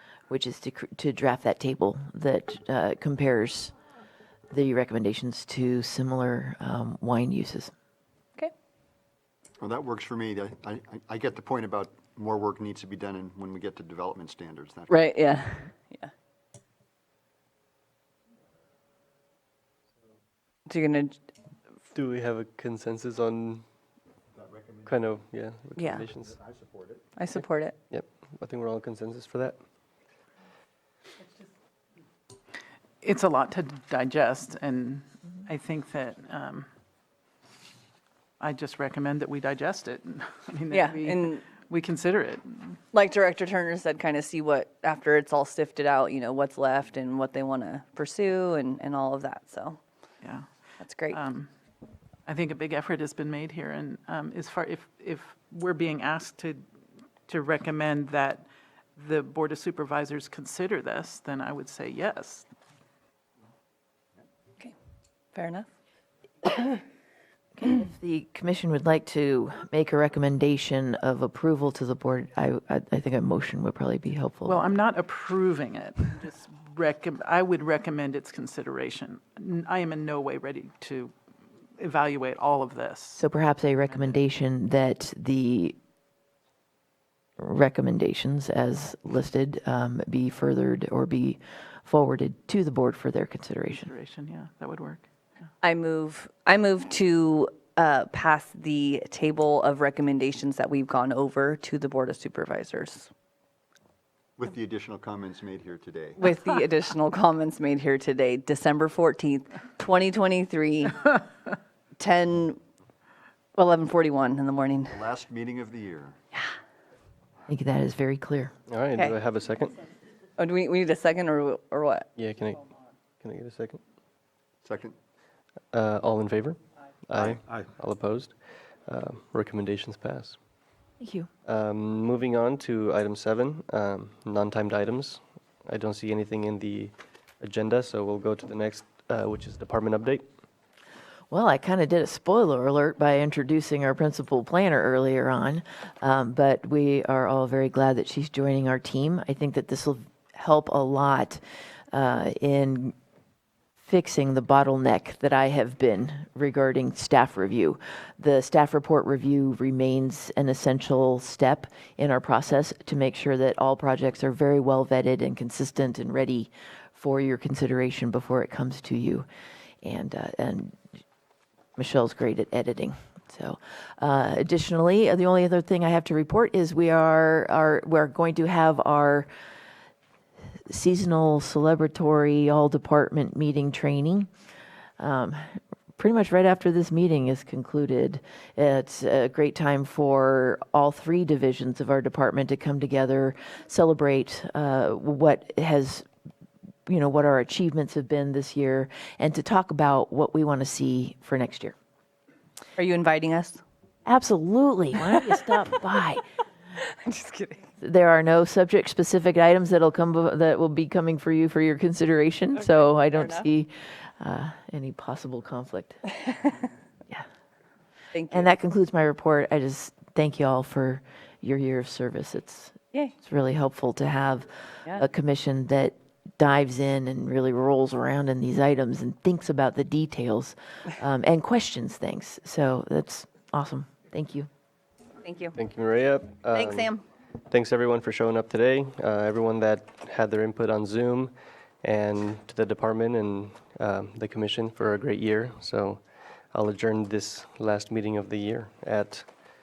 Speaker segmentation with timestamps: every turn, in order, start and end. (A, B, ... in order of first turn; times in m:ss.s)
0:00.3-0:03.7 A
0:04.5-0:07.7 A
0:09.6-0:15.0 B
0:14.9-0:16.1 C
0:20.7-0:21.2 C
0:21.9-0:23.6 D
0:24.4-0:24.8 B
0:24.8-0:26.4 D
0:25.8-0:26.1 C
0:26.5-0:27.0 B
0:27.2-0:27.7 C
0:27.9-0:29.6 D
0:33.0-0:36.7 E
0:38.4-0:42.8 E
0:40.7-0:41.5 C
0:42.9-0:49.8 C
0:50.2-0:50.5 E
0:50.8-0:51.2 C
0:51.1-0:51.5 E
0:52.2-0:56.6 E
0:57.3-0:58.4 E
0:59.0-1:02.5 E
1:05.3-1:05.7 C
1:07.6-1:14.6 A
1:14.4-1:21.1 E
1:21.8-1:23.2 E
1:23.2-1:25.7 A
1:27.4-1:33.9 A
1:33.7-1:35.0 E
1:35.6-1:43.1 C
1:44.4-1:46.2 B
1:46.2-1:51.1 C
1:52.0-1:52.6 C
1:53.5-1:55.0 C
1:54.9-1:56.1 B
1:57.5-1:58.5 A
1:58.7-1:59.8 D
2:00.4-2:02.1 C
2:02.2-2:02.6 D
2:03.2-2:03.8 D
2:04.6-2:05.0 B
2:05.7-2:08.3 D
2:08.9-2:10.4 D
2:11.0-2:11.3 A
2:11.4-2:20.2 D
2:21.3-2:31.4 A
2:31.9-2:32.9 A
2:33.8-2:49.2 A
2:49.8-2:50.8 A
2:51.8-2:59.3 A
3:00.7-3:04.3 A
3:05.0-3:05.4 A
3:06.0-3:16.0 A
3:16.8-3:21.7 A
3:22.8-3:23.6 C
3:24.0-3:26.2 A
3:26.8-3:27.6 C
3:27.8-3:36.0 A
3:32.5-3:33.5 C
3:38.1-3:38.5 C
3:38.3-3:54.5 A
3:55.2-3:55.5 C
3:55.6-3:56.9 D
3:56.5-3:57.0 C
3:57.5-4:06.0 D
4:06.5-4:09.2 D